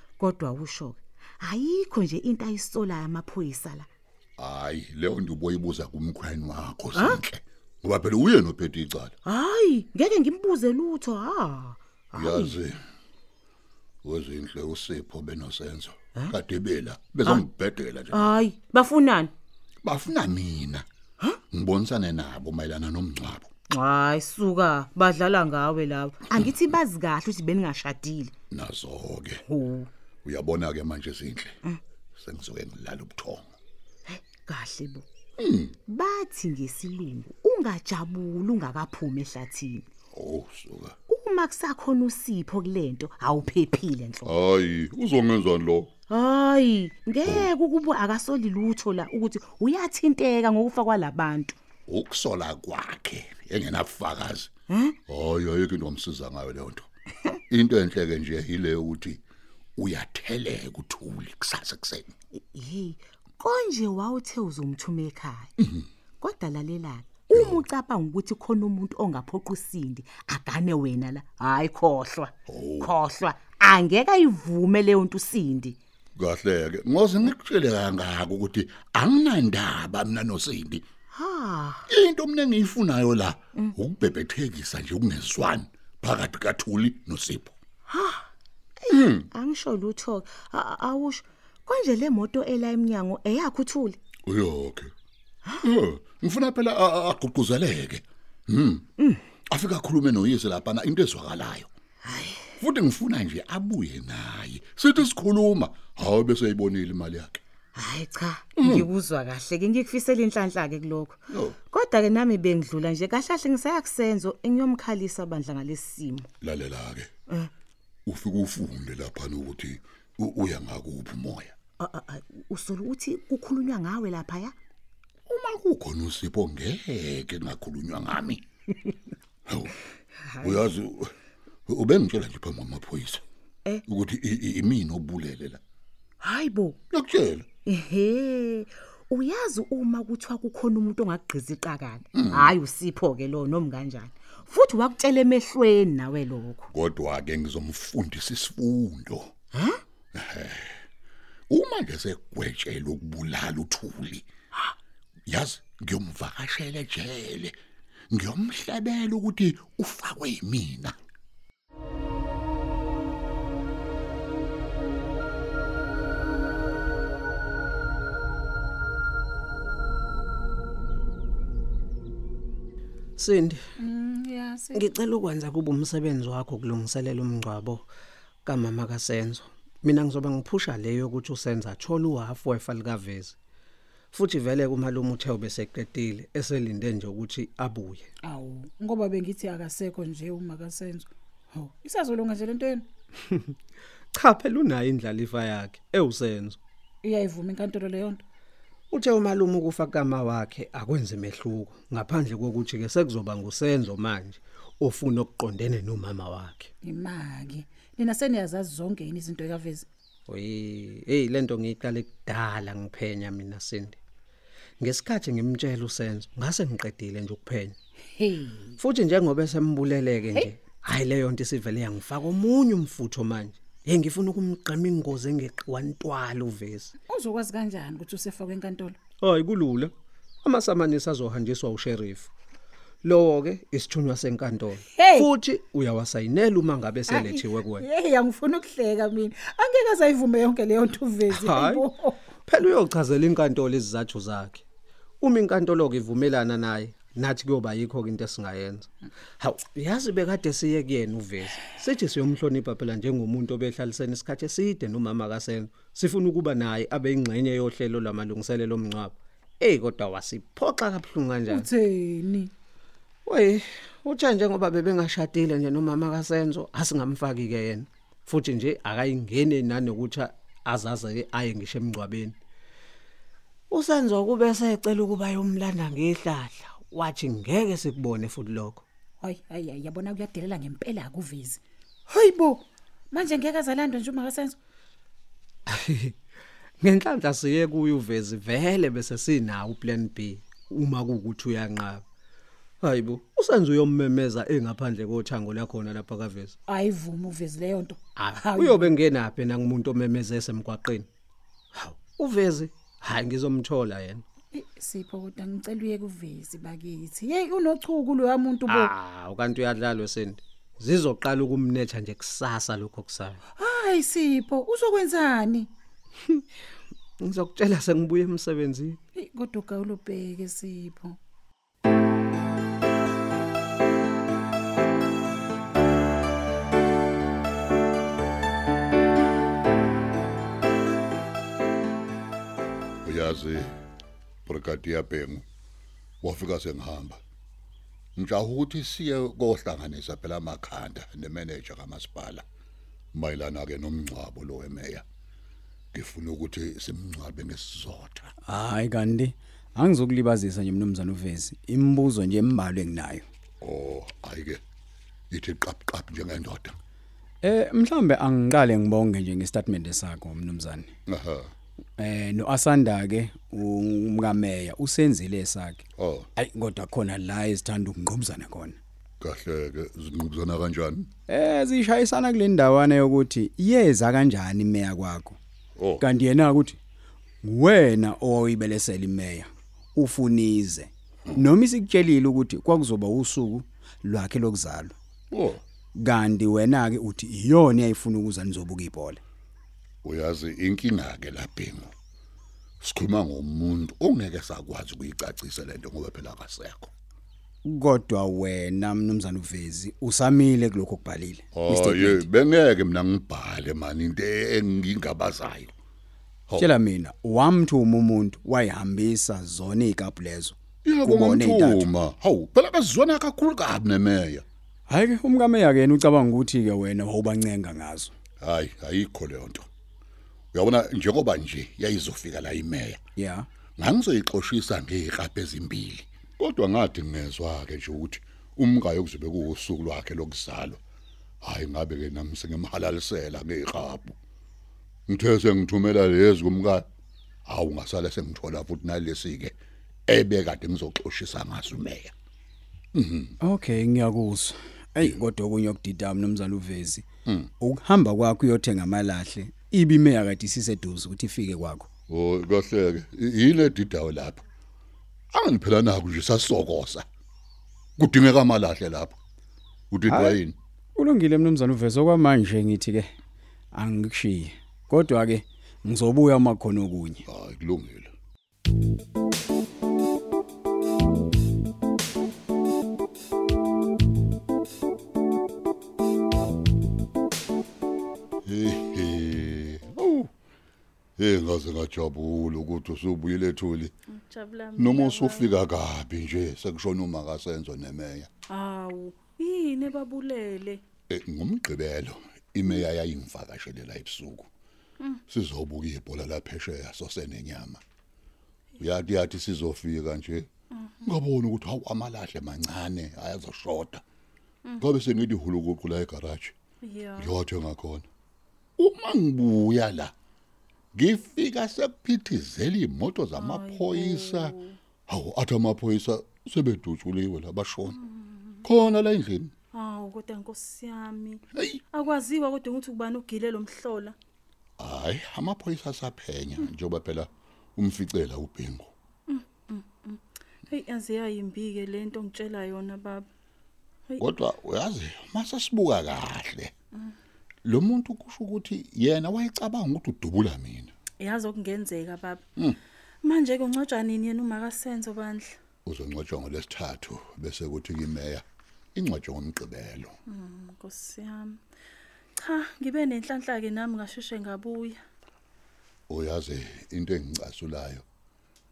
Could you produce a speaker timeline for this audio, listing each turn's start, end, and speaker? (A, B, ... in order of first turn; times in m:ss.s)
0:00.2-0:03.9 A
0:04.4-0:09.1 B
0:06.9-0:07.2 A
0:09.2-0:12.5 A
0:12.1-0:12.8 B
0:14.0-0:18.4 B
0:18.1-0:19.3 A
0:19.8-0:20.8 B
0:21.5-0:23.5 B
0:23.7-0:28.3 A
0:26.4-0:26.8 B
0:28.5-0:29.4 B
0:29.5-0:29.9 A
0:30.2-0:31.6 B
0:32.2-0:33.5 B
0:34.1-0:35.0 A
0:35.4-0:35.8 B
0:35.9-0:39.8 A
0:40.1-0:41.0 B
0:41.1-0:44.3 A
0:44.2-0:45.9 B
0:46.1-0:51.5 A
0:47.2-0:47.5 B
0:51.9-0:54.5 B
0:55.1-0:56.9 B
0:57.5-0:59.2 B
0:59.8-1:02.1 B
1:02.3-1:05.5 A
1:06.2-1:15.8 A
1:07.3-1:07.6 B
1:12.5-1:13.0 B
1:16.2-1:20.8 B
1:21.1-1:21.8 A
1:21.9-1:27.6 B
1:27.9-1:28.3 A
1:28.8-1:34.0 A
1:28.9-1:29.3 B
1:34.2-1:34.9 B
1:35.6-1:38.9 B
1:39.4-1:41.7 B
1:42.0-1:42.5 A
1:42.6-1:47.4 B
1:47.7-1:56.3 A
1:48.6-1:48.9 B
1:51.3-1:51.6 B
1:56.4-1:57.1 B
1:58.0-2:01.5 B
2:01.8-2:04.5 A
2:05.3-2:08.4 B
2:09.5-2:09.7 B
2:10.3-2:10.6 A
2:10.4-2:11.1 B
2:11.7-2:13.2 B
2:13.8-2:15.6 B
2:16.2-2:16.8 A
2:16.9-2:17.5 B
2:17.6-2:26.6 A
2:22.1-2:22.6 B
2:26.7-2:29.3 B
2:29.5-2:29.8 A
2:30.1-2:30.8 B
2:31.5-2:34.3 B
2:35.3-2:37.6 B
2:38.1-2:41.0 B
2:53.2-2:53.6 C
2:53.8-2:54.9 D
2:54.7-2:57.8 C
2:58.4-3:03.4 C
3:04.1-3:08.1 C
3:08.2-3:12.9 D
3:14.1-3:16.6 C
3:17.0-3:18.2 D
3:18.9-3:26.7 C
3:26.8-3:29.8 D
3:30.3-3:34.0 C
3:34.8-3:37.7 C
3:38.1-3:38.8 D
3:38.8-3:46.9 C
3:47.1-3:49.0 D
3:49.2-3:49.9 C
3:50.4-3:52.3 C
3:53.0-3:57.8 C
3:54.8-3:55.4 D
3:57.1-4:02.4 D
4:01.3-4:01.8 C
4:02.5-4:04.6 C
4:05.2-4:08.9 C
4:09.4-4:21.7 C
4:21.5-4:22.5 D
4:23.2-4:32.3 C
4:33.7-4:38.8 C
4:39.2-4:44.6 D
4:45.8-4:46.1 C
4:46.8-4:52.0 C
4:52.8-4:56.5 C
4:56.7-4:59.0 D
4:58.2-5:01.1 C
5:01.7-5:04.2 C
5:04.5-5:08.9 D
5:08.7-5:13.4 C
5:13.6-5:15.7 D
5:17.2-5:19.0 C
5:19.2-5:21.2 D
5:33.0-5:33.8 B
5:34.4-5:35.4 B
5:36.2-5:37.2 B
5:38.2-5:42.4 B
5:43.1-5:45.0 B
5:45.9-5:48.3 B
5:48.4-5:53.2 E
5:53.6-5:54.6 B
5:55.3-5:56.8 B
5:57.4-6:00.9 E
6:01.1-6:01.5 B
6:02.0-6:08.8 E
6:06.0-6:06.3 B
6:09.2-6:11.1 B
6:11.3-6:15.4 E
6:15.8-6:16.0 B
6:16.0-6:16.8 E
6:17.4-6:24.9 E
6:25.3-6:25.6 B
6:26.0-6:29.2 E
6:30.0-6:31.9 B
6:32.8-6:36.9 B
6:37.6-6:42.2 E
6:41.5-6:45.7 B
6:46.6-6:51.9 E
6:50.8-6:54.4 B
6:54.9-6:58.1 E
6:58.4-6:59.7 B
7:00.5-7:03.0 B
7:03.2-7:03.5 E
7:03.8-7:10.8 B
7:11.4-7:14.1 B
7:15.1-7:16.8 B
7:17.4-7:19.6 B
7:20.1-7:22.1 B
7:22.9-7:23.3 B
7:23.4-7:27.0 E
7:27.6-7:31.9 E
7:32.1-7:34.4 B
7:35.3-7:37.0 B
7:38.0-7:39.2 B
7:39.9-7:40.6 B
7:40.1-7:40.4 E
7:41.0-7:43.1 E
7:43.7-7:47.2 E
7:47.2-7:48.1 B
7:58.4-8:00.3 B
8:01.2-8:03.9 B
8:04.1-8:05.5 F
8:04.8-8:08.3 B
8:08.5-8:10.8 F
8:11.1-8:14.5 B
8:15.3-8:17.8 B
8:18.8-8:20.5 B
8:21.0-8:24.0 B
8:24.8-8:26.5 B
8:26.8-8:27.3 F
8:27.2-8:28.1 B
8:28.8-8:30.1 B
8:30.9-8:38.0 B
8:33.4-8:34.8 F
8:38.6-8:39.5 B
8:39.7-8:44.2 F
8:41.5-8:41.8 B
8:44.8-8:48.9 B
8:49.3-8:53.3 F
8:54.2-8:56.7 B
8:57.6-9:00.9 B
9:01.2-9:02.4 F
9:03.2-9:05.6 F
9:05.8-9:08.4 B
9:08.9-9:10.2 B
9:10.3-9:11.6 F
9:12.4-9:15.0 F
9:16.1-9:18.0 B